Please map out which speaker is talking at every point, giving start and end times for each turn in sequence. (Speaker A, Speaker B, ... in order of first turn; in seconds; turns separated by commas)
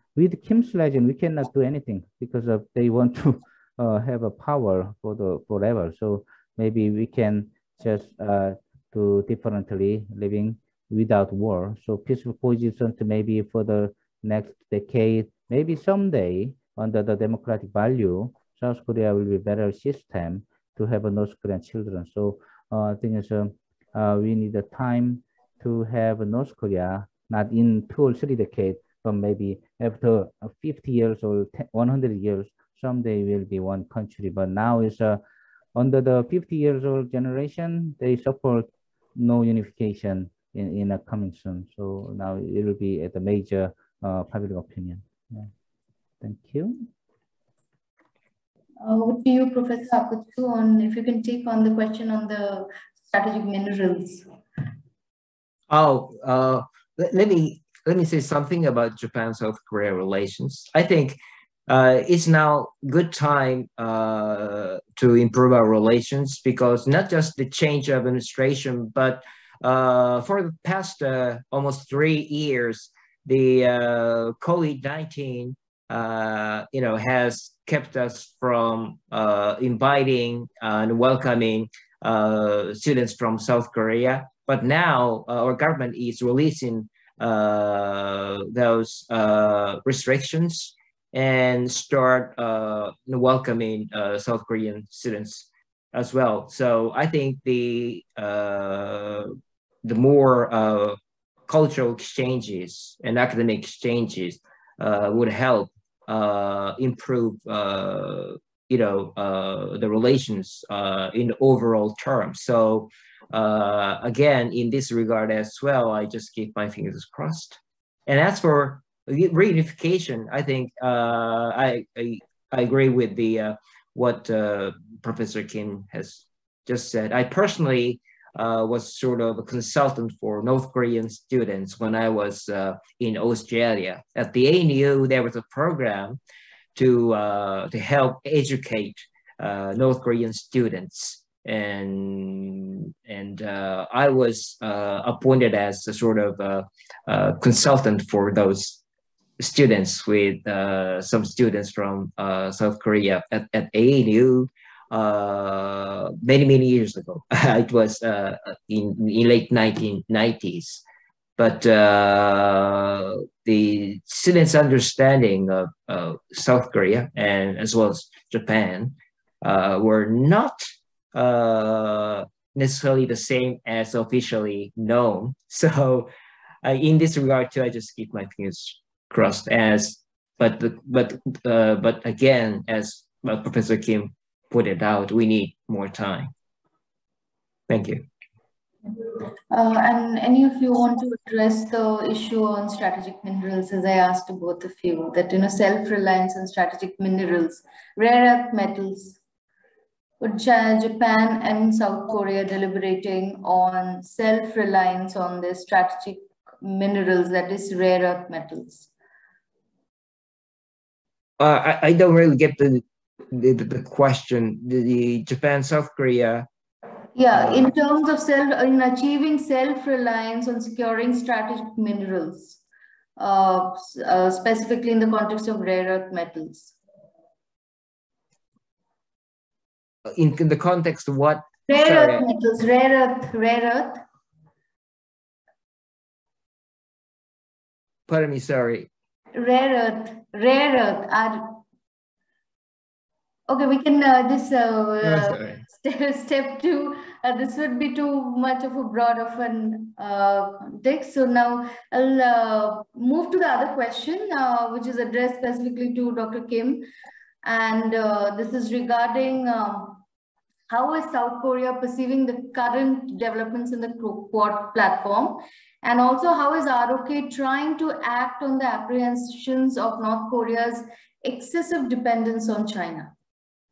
Speaker A: 0.2-35.2, Speaker A: 35.8-45.5, Speaker A: 46.2-46.8, Speaker B: 48.8-54.3, Speaker C: 55.7-99.3, Speaker C: 99.8-136.2, Speaker C: 136.8-148.8, Speaker C: 149.4-160.8, Speaker C: 161.4-176.1, Speaker C: 176.6-186.3, Speaker C: 187.7-188.1, Speaker B: 188.9-199.2, Speaker B: 200.2-208.9, Speaker C: 211.4-216.5, Speaker B: 217.2-222.6, Speaker C: 217.3-217.7, Speaker B: 223.2-226.8, Speaker C: 230.1-232.3, Speaker B: 231.7-234.0, Speaker C: 238.1-238.9, Speaker B: 239.3-241.6, Speaker B: 243.5-256.9, Speaker C: 245.0-245.6, Speaker B: 257.4-260.0, Speaker B: 260.7-273.1